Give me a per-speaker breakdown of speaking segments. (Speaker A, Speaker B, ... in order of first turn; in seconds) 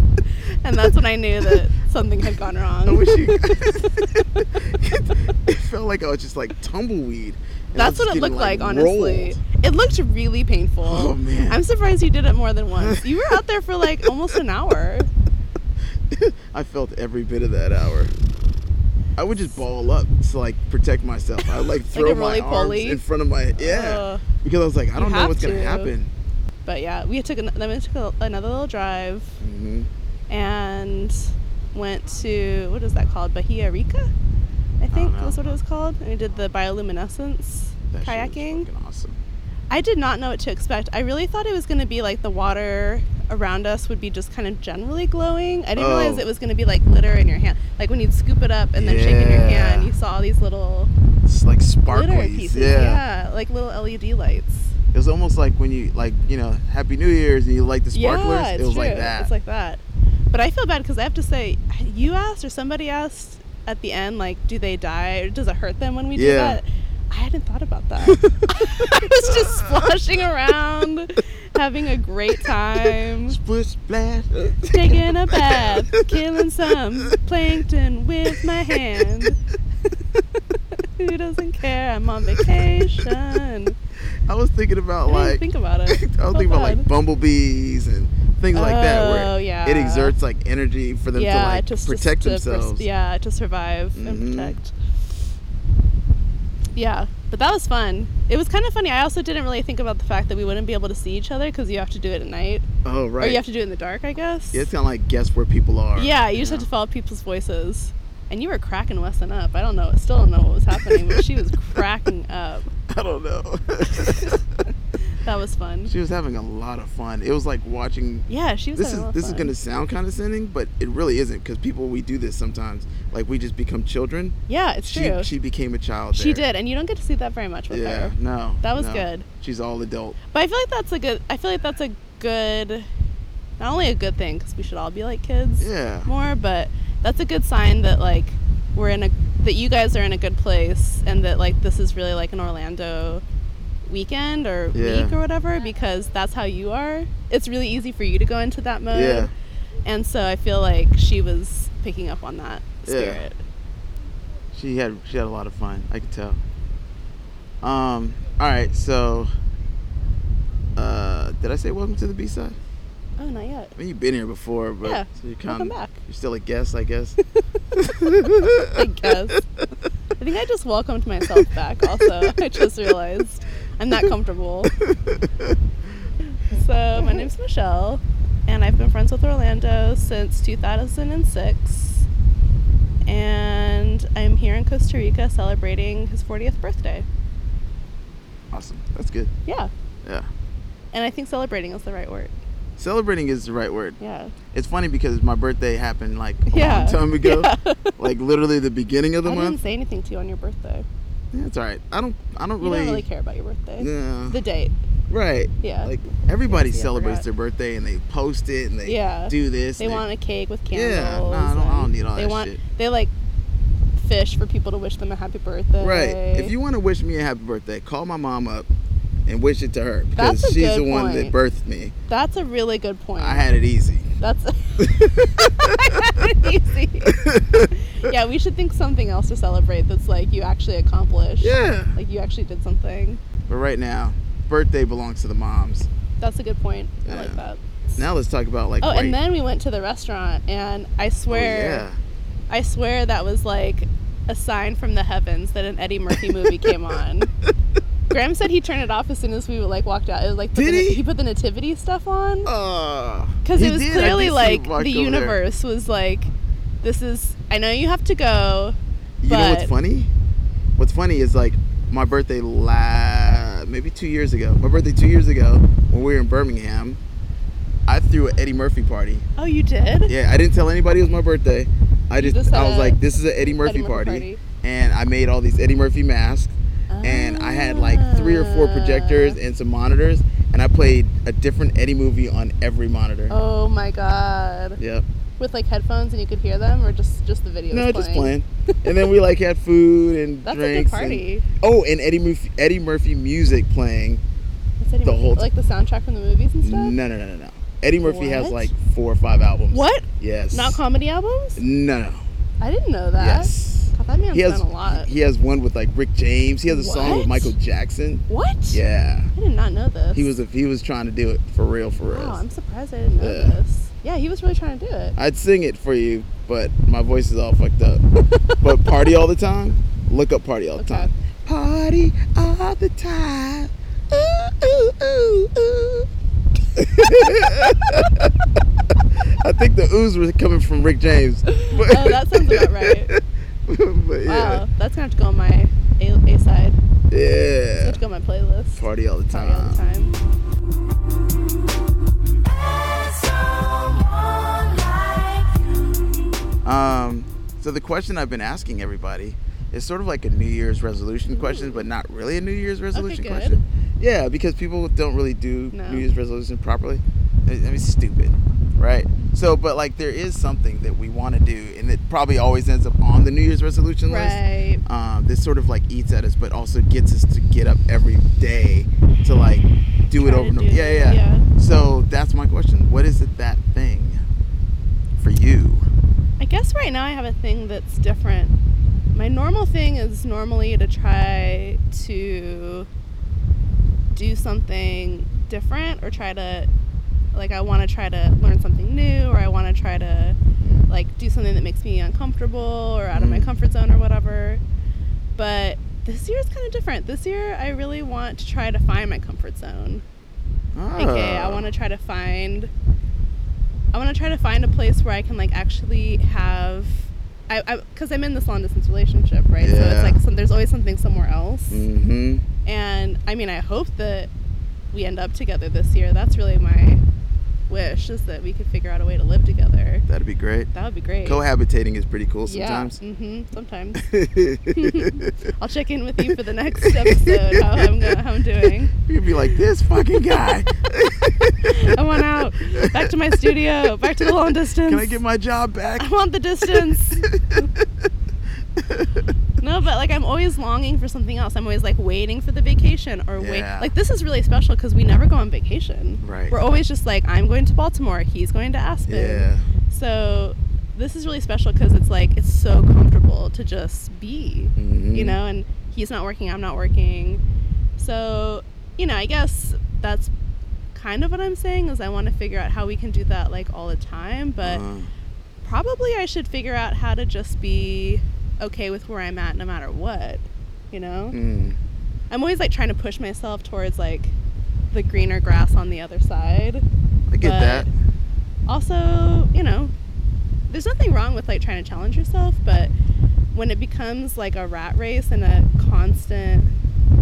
Speaker A: 0.6-4.0, 7.7-15.1, 21.9-23.0, 23.6-24.2, 24.9-25.9, 26.6-29.4, 30.3-31.2, 31.7-34.1, 34.8-38.7, 39.7-50.9, 51.9-54.7, 57.9-73.4, 74.7-79.4, 80.7-83.7, 85.0-86.9, 88.5-90.1, 91.1-94.7, 96.7-102.7, 103.2-104.7, 106.0-112.7, 114.0-114.4, 115.1-115.9, 118.3-119.5, 124.5-125.3, 126.1-129.3, 130.3-132.9, 133.6-143.2, 143.8-149.3, 149.8-153.4, 163.2-163.7, 164.8-166.0, 168.6-169.4, 170.2-174.7, 176.5-182.1, 183.1-187.1, 189.4-189.7, 190.9-192.3, 194.0-194.3, 196.5-198.0, 199.2-200.8, 202.6-204.7, 205.6-205.9, 206.5-207.2, 208.8-213.1, 213.9-216.5, 220.2-221.3, 222.1-223.5, 224.2-227.2, 227.9-233.2, 236.2-238.0, 238.8-241.8, 242.5-247.3, 248.1-252.5, 253.4-256.3, 256.8-259.7, 269.4-270.1, 272.1-274.4, 276.9-279.4, 283.3-284.8, 285.4-288.3, 290.4-291.4, 294.8-296.9, 298.0-298.7, 299.7-301.6, 302.6-305.1, 306.6-307.5, 308.3-308.8, 309.3-310.3, 312.1-315.1, 318.3-318.9, 320.8-321.1, 331.6-333.1, 334.2-336.8, 337.8-340.1, 351.4-351.8, 352.9-353.6, 355.7-356.0, 364.1-364.8, 370.1-371.4, 376.4-378.5, 379.1-382.9, 384.1-386.7, 387.3-390.4, 390.9-394.6, 395.4-400.0, 400.9-402.7, 403.9-411.8, 412.6-414.3, 414.9-417.0, 417.7-420.0, 420.7-421.4, 422.4-424.0, 424.7-428.9, 431.7-435.2, 436.0-437.6, 439.6-457.4, 458.0-460.3, 460.9-464.8, 465.6-471.4, 472.3-474.3, 474.9-476.8, 477.4-477.9, 478.7-479.9, 480.7-482.9, 483.5-486.7
Speaker B: 2.4-9.4, 10.8-11.6, 12.7-13.4, 14.0-14.4, 16.1-18.1, 19.2-26.1, 29.4-29.9, 34.9-35.6, 37.9-39.2, 45.7-46.3, 48.8-49.9, 51.2-53.0, 54.9-59.3, 66.1-66.6, 68.0-70.0, 72.8-77.1, 78.3-79.2, 82.3-83.1, 84.3-92.9, 93.9-94.5, 102.8-103.4, 104.5-106.7, 110.7-111.4, 112.9-114.4, 115.8-126.4, 127.7-130.2, 135.6-136.1, 144.7-145.2, 148.9-149.3, 152.8-153.2, 154.5-156.4, 157.6-159.3, 160.8-162.6, 163.8-167.2, 167.8-169.3, 171.3-172.6, 174.6-175.6, 177.0-177.3, 188.5-189.3, 192.8-194.0, 194.5-199.6, 201.3-203.1, 203.8-204.4, 205.1-210.0, 210.7-212.6, 215.8-218.7, 219.2-221.9, 223.2-224.2, 224.8-226.3, 227.0-228.1, 231.4-232.0, 233.5-235.9, 237.0-237.4, 237.9-239.2, 241.3-242.0, 246.1-247.0, 250.5-251.0, 252.4-255.4, 259.2-260.1, 260.8-267.0, 267.9-269.3, 270.1-283.4, 284.8-285.0, 287.7-294.2, 295.0-295.5, 296.6-300.8, 301.6-302.2, 303.1-309.3, 310.1-312.4, 313.2-313.6, 315.1-318.0, 318.6-326.1, 326.7-328.3, 328.9-334.6, 337.1-338.0, 338.7-339.9, 346.6-374.2, 375.2-375.9, 390.6-390.9, 393.1-393.5, 400.7-401.7, 409.6-410.2, 411.7-412.4, 420.1-420.7, 421.2-423.0, 423.9-425.3, 426.2-431.8, 432.8-436.1, 436.7-437.9, 438.8-439.3, 443.4-443.9, 446.2-446.6, 449.1-449.7, 454.8-455.4, 464.6-465.1, 471.3-471.8, 477.3-477.9